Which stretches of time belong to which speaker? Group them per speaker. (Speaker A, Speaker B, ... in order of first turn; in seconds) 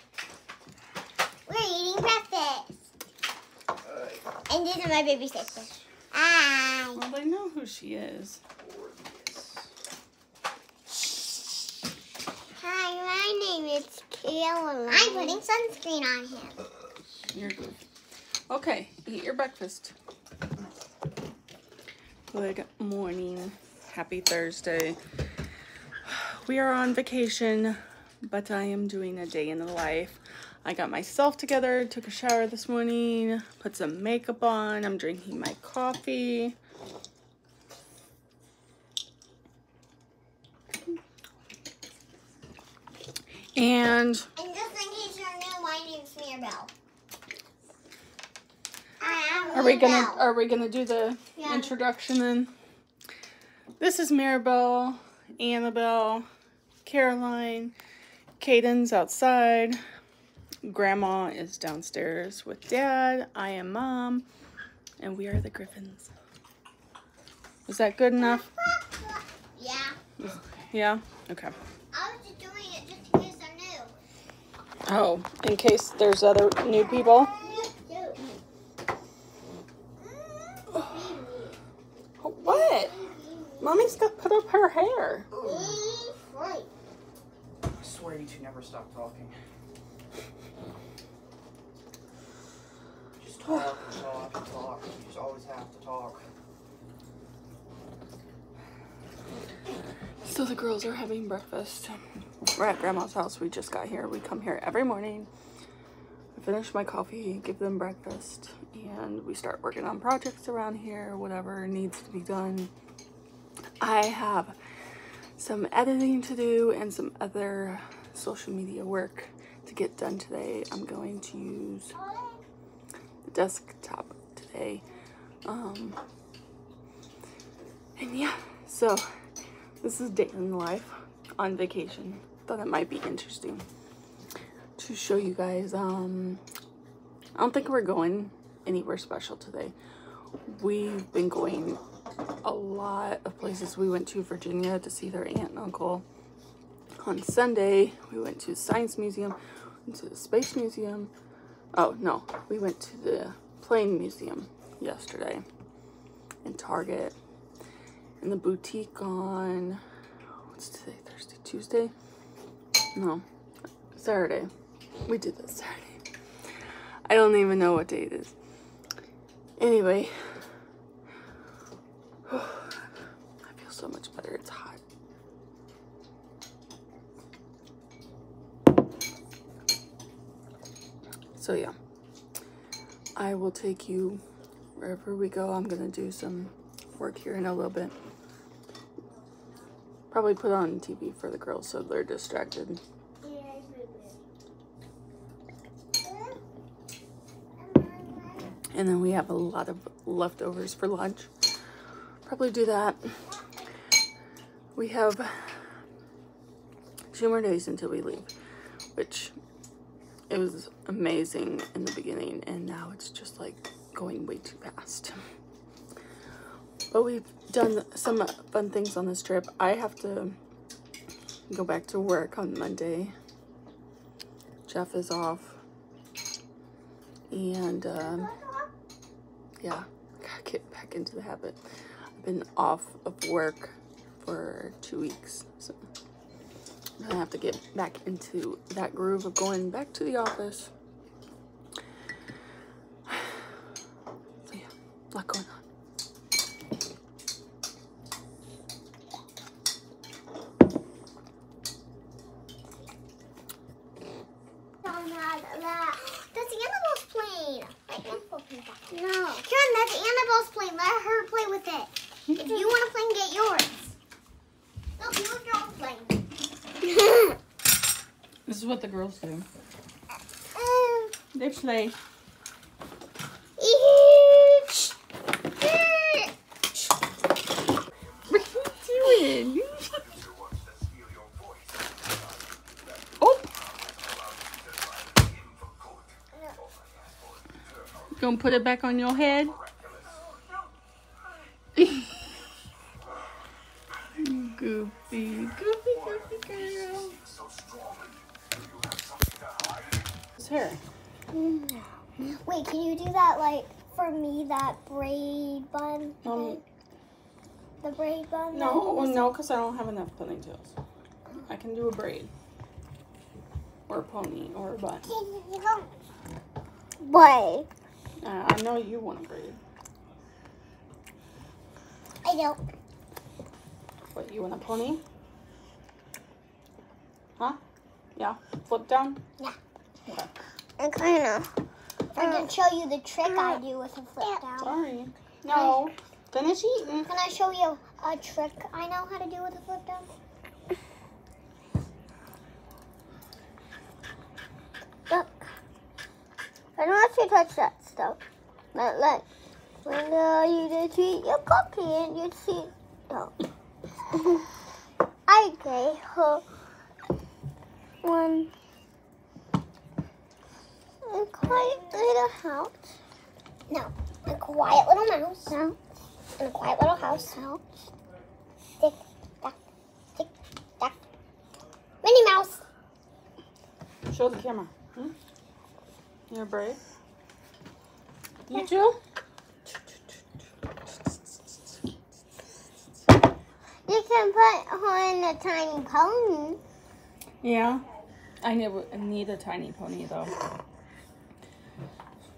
Speaker A: 1.5-2.7, 4.5-7.0, 12.6-16.6, 44.4-46.7, 49.0-50.2, 51.4-51.7, 68.2-70.0, 71.9-73.9, 76.7-78.2, 80.0-81.5, 82.4-83.8, 85.4-86.7, 121.9-122.4, 193.2-194.2, 196.0-196.4, 197.6-198.6, 228.0-228.7, 254.8-263.9, 265.0-266.2, 266.8-267.4, 270.6-271.1, 273.6-274.9, 275.6-276.3, 301.3-301.8, 302.4-306.6, 307.8-309.3, 315.1-315.9, 317.0-317.7, 322.2-322.6, 330.8-331.5, 332.1-334.7, 335.5-335.8, 337.1-340.1, 346.8-348.2, 348.8-349.2, 349.9-353.3, 355.3-356.4, 358.0-358.5, 361.1-362.7, 363.7-365.8, 366.4-367.6, 368.8-369.6, 372.0-372.6, 383.9-386.6
Speaker B: 6.9-8.4, 14.9-15.4, 17.3-17.8, 18.5-19.9, 22.3-25.0, 26.1-36.5, 43.6-44.3, 49.5-52.5, 53.8-56.3, 56.8-57.7, 58.4-59.8, 60.6-64.3, 65.0-66.1, 67.7-68.4, 70.2-71.5, 74.9-77.3, 80.7-81.0, 82.2-83.0, 83.6-85.3, 100.2-102.0, 102.5-105.3, 106.3-112.7, 113.8-114.6, 115.4-122.0, 123.3-124.8, 125.5-126.0, 128.0-129.1, 129.8-133.6, 134.8-136.4, 137.4-139.7, 140.5-141.8, 142.4-146.1, 147.0-151.1, 151.7-155.4, 156.4-157.2, 158.2-159.8, 160.5-161.9, 162.9-163.2, 164.0-164.5, 165.1-166.0, 167.1-168.3, 169.6-170.1, 172.3-172.8, 173.4-174.8, 181.4-181.8, 183.2-184.2, 184.8-187.9, 190.1-192.8, 198.7-201.3, 202.3-203.2, 204.8-205.6, 207.1-208.3, 208.9-209.3, 210.3-215.2, 216.9-220.4, 221.5-223.1, 224.7-225.6, 227.3-228.3, 229.6-231.6, 232.2-235.8, 237.0-240.7, 244.5-245.6, 262.3-262.8, 268.5-269.5, 271.3-272.0, 278.3-279.9, 283.2-283.5, 288.2-289.5, 291.8-292.0, 294.2-297.2, 300.4-300.8, 306.2-306.6, 308.5-310.7, 311.4-312.3, 313.9-315.1, 318.2-319.6, 324.1-325.0, 328.2-329.2, 330.1-330.3, 334.6-337.1, 374.1-375.1, 376.3-376.8, 378.5-379.0, 387.4-387.8, 388.4-390.3
Speaker C: 85.3-85.8, 87.7-89.3, 93.2-96.3